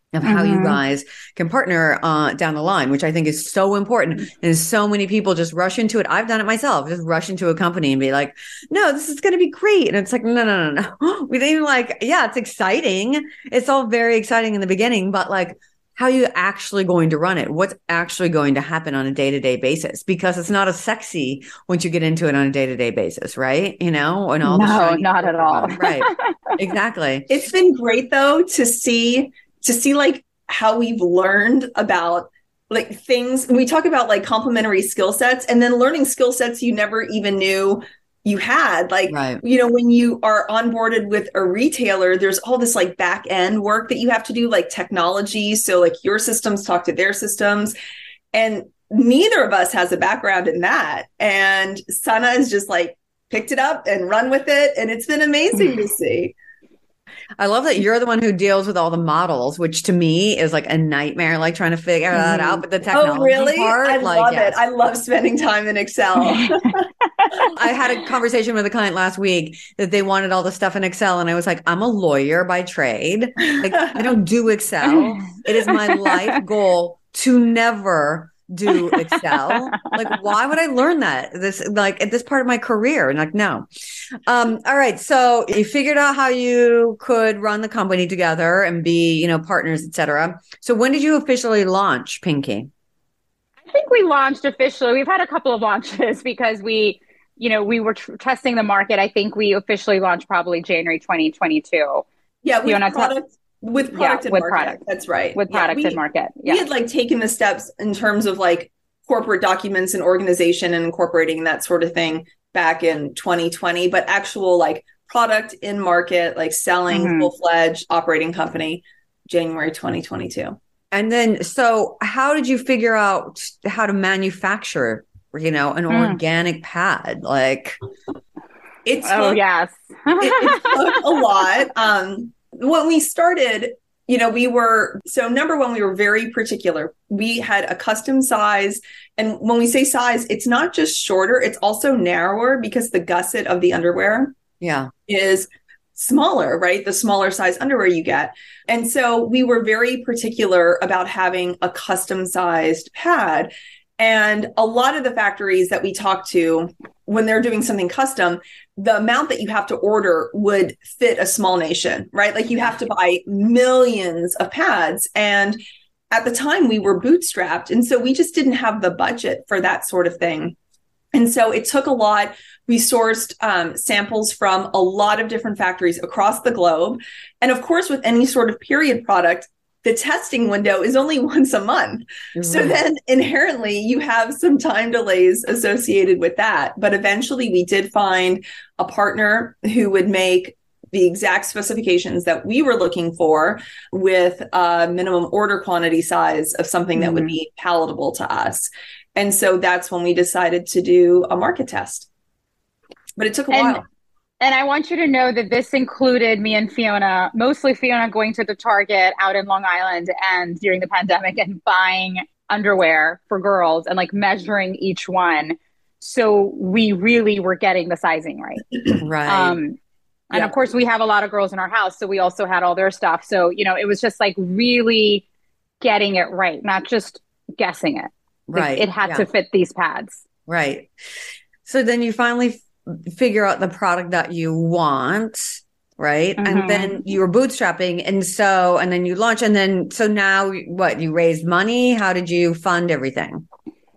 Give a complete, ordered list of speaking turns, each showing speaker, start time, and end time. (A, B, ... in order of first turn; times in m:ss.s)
0:00.1-0:27.3 A
0:00.2-0:00.8 B
0:24.4-0:26.1 B
0:27.3-0:47.8 C
0:39.1-0:39.4 A
0:48.3-0:56.4 C
0:57.4-1:04.6 A
1:02.2-1:02.6 B
1:02.9-1:06.9 C
1:07.5-1:23.7 A
1:13.6-1:14.1 C
1:19.5-1:19.9 B
1:24.3-1:32.7 A
1:33.7-1:42.0 B
1:42.4-2:00.6 C
1:42.7-1:43.1 B
1:43.9-1:44.8 B
1:45.4-1:46.7 B
1:56.9-1:57.3 B
2:00.9-2:07.8 A
2:05.9-2:06.2 B
2:08.8-2:09.4 C
2:09.0-2:11.0 B
2:10.2-2:24.4 C
2:24.6-2:24.9 A
2:25.1-2:45.6 C
2:46.1-2:50.6 C
2:51.1-3:22.1 C
3:02.4-3:02.8 A
3:17.0-3:17.4 B
3:23.2-3:23.8 C
3:23.5-3:23.8 B
3:24.4-3:38.6 B
3:39.0-3:39.6 A
3:39.2-3:39.8 B
3:40.3-3:45.2 B
3:45.8-3:50.2 B
3:48.5-3:49.3 A
3:50.5-3:50.9 A
3:51.6-4:03.5 A
3:56.4-3:57.0 B